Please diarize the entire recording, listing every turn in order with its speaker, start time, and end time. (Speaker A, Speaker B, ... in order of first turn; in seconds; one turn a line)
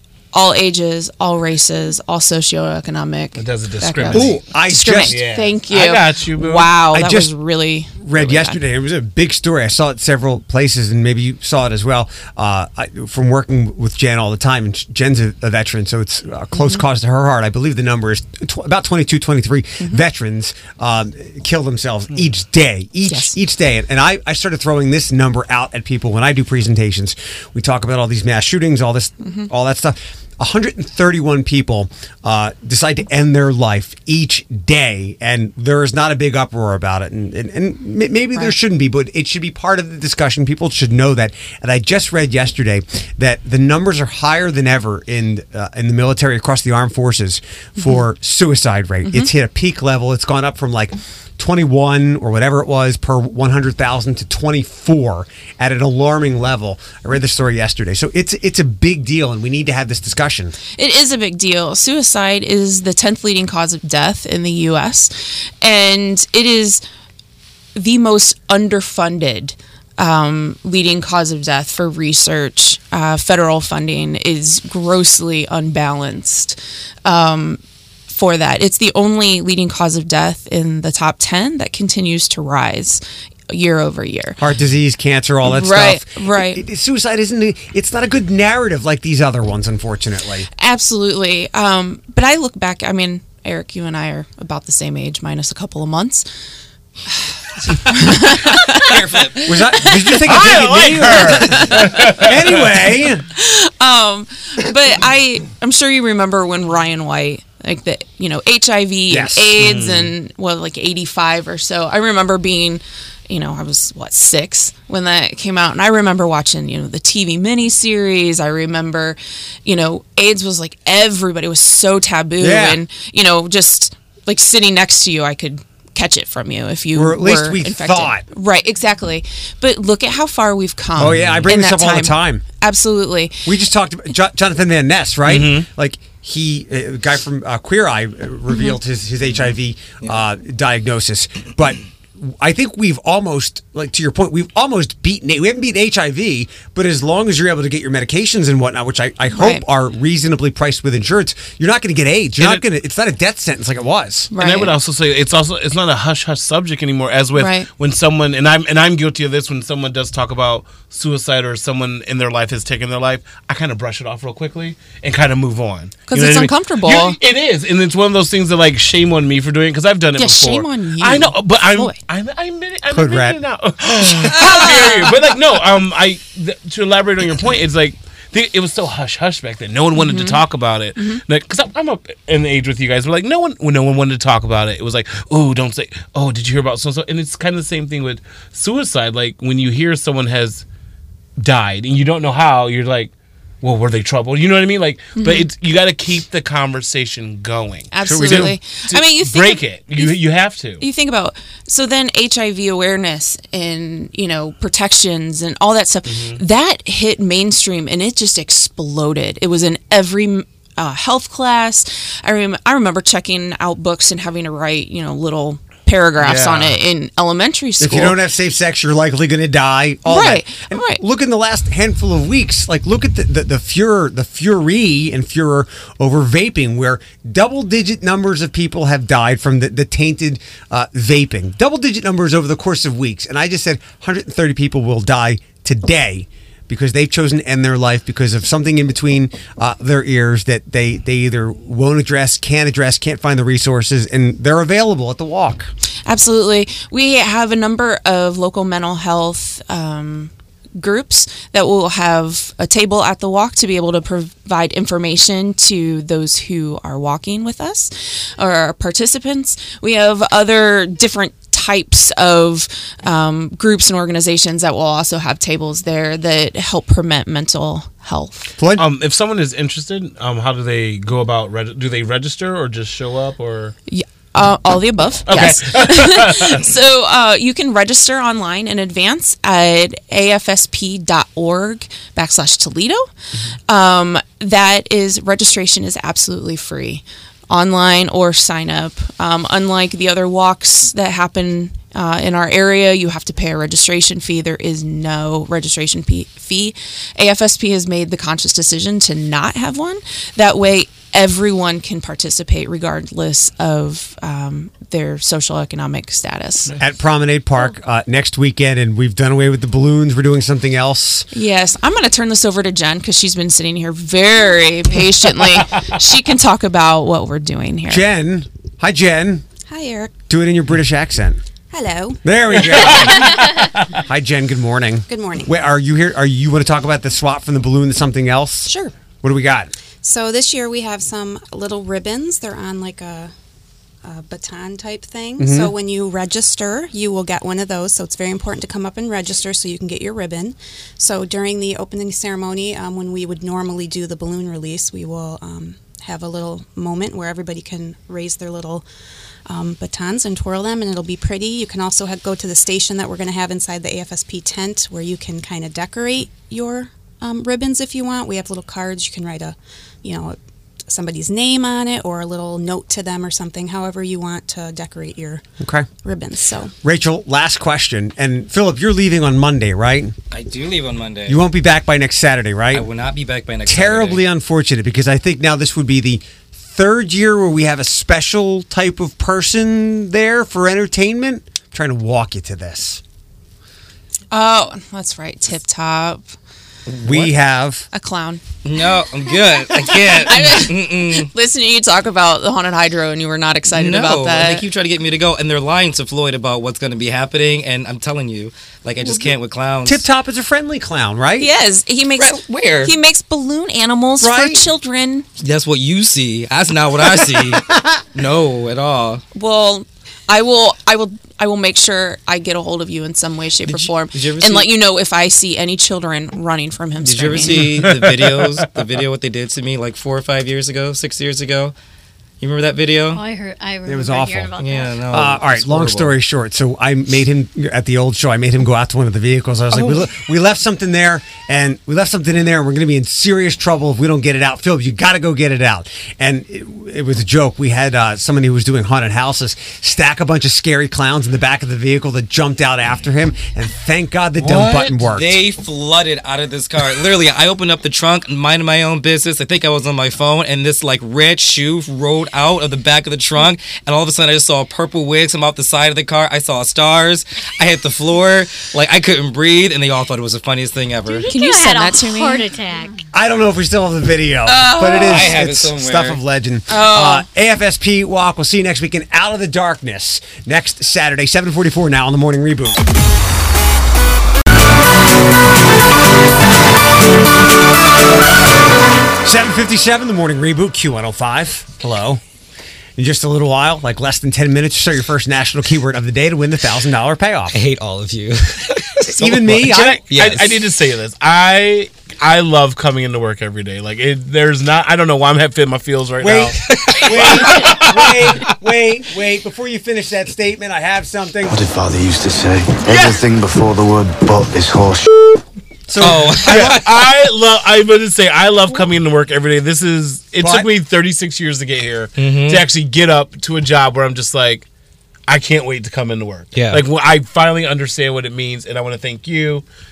Speaker A: 0.3-8.6
Speaker B: 3.4-4.5
Speaker C: 4.1-5.2
Speaker B: 5.1-6.7
Speaker C: 6.9-7.3
Speaker C: 8.0-60.5
Speaker A: 16.6-16.8
Speaker A: 23.1-23.4
Speaker A: 29.2-29.5
Speaker A: 47.8-48.0
Speaker A: 49.0-49.3
Speaker A: 60.8-66.8
Speaker A: 67.8-84.4
Speaker C: 84.4-90.5
Speaker A: 85.4-86.6
Speaker A: 90.6-96.3
Speaker A: 97.8-99.0
Speaker D: 98.5-99.5
Speaker C: 99.5-103.2
Speaker B: 100.2-102.5
Speaker A: 101.5-102.0
Speaker A: 103.3-133.4
Speaker C: 109.1-109.6
Speaker B: 109.6-110.1
Speaker C: 122.4-122.8
Speaker C: 126.9-128.2
Speaker C: 131.0-132.4
Speaker D: 131.2-131.4
Speaker C: 133.5-154.3
Speaker B: 135.3-135.7
Speaker A: 149.3-149.7
Speaker A: 154.3-154.8
Speaker B: 154.3-190.6
Speaker A: 157.3-157.7
Speaker A: 166.1-167.2
Speaker A: 170.2-172.0
Speaker C: 172.9-173.4
Speaker A: 174.2-175.2
Speaker A: 179.9-180.4
Speaker A: 181.0-181.2
Speaker B: 191.4-193.1
Speaker B: 193.6-200.8
Speaker A: 195.2-195.5
Speaker A: 197.9-200.2
Speaker C: 198.0-198.5
Speaker A: 200.8-218.2
Speaker B: 206.2-206.4
Speaker B: 216.2-216.8
Speaker C: 217.8-245.7
Speaker A: 220.1-221.0
Speaker A: 246.1-268.5
Speaker C: 268.6-268.9
Speaker B: 268.8-273.8
Speaker A: 273.9-283.1
Speaker B: 275.3-276.6
Speaker A: 283.7-306.8
Speaker C: 306.8-311.3
Speaker A: 311.3-318.1
Speaker C: 317.9-319.5
Speaker E: 319.7-320.2
Speaker C: 320.3-321.4
Speaker E: 321.7-322.2
Speaker C: 322.2-329.7
Speaker B: 322.6-323.8
Speaker E: 325.1-325.5
Speaker E: 330.0-333.3
Speaker E: 334.0-348.9
Speaker C: 335.4-335.7
Speaker E: 349.5-365.5
Speaker C: 365.6-365.9
Speaker E: 366.0-366.7
Speaker C: 366.8-370.2
Speaker D: 370.3-371.4
Speaker C: 371.3-372.9
Speaker D: 372.7-374.2
Speaker C: 373.7-383.0
Speaker A: 384.3-386.3
Speaker C: 387.0-387.9
Speaker A: 387.9-388.4
Speaker D: 388.6-391.3
Speaker A: 389.7-394.6
Speaker D: 393.7-400.0
Speaker C: 399.9-401.5
Speaker A: 401.4-405.3
Speaker D: 402.2-402.9
Speaker C: 404.2-404.6
Speaker D: 405.4-407.6
Speaker D: 408.1-409.2
Speaker A: 409.3-417.7
Speaker D: 413.6-414.7
Speaker D: 417.0-421.7
Speaker B: 417.7-418.5
Speaker D: 422.4-423.2
Speaker F: 423.1-425.0
Speaker C: 423.9-424.5
Speaker D: 424.6-426.1
Speaker C: 425.1-445.4
Speaker D: 429.8-430.0
Speaker B: 444.4-444.9
Speaker D: 445.1-461.3
Speaker F: 461.1-463.0
Speaker A: 461.3-462.5
Speaker C: 463.1-472.8
Speaker A: 464.5-465.3
Speaker D: 465.0-466.2
Speaker A: 466.7-467.3
Speaker C: 479.2-482.2
Speaker C: 483.0-487.6
Speaker D: 487.5-490.6
Speaker C: 489.1-490.0
Speaker B: 489.6-498.3
Speaker C: 496.2-501.6
Speaker D: 496.7-497.4
Speaker G: 501.5-505.0
Speaker C: 505.9-506.8
Speaker D: 506.0-506.9
Speaker B: 506.5-514.7
Speaker C: 510.4-510.7
Speaker D: 512.2-512.6
Speaker B: 515.3-519.6
Speaker D: 516.5-516.8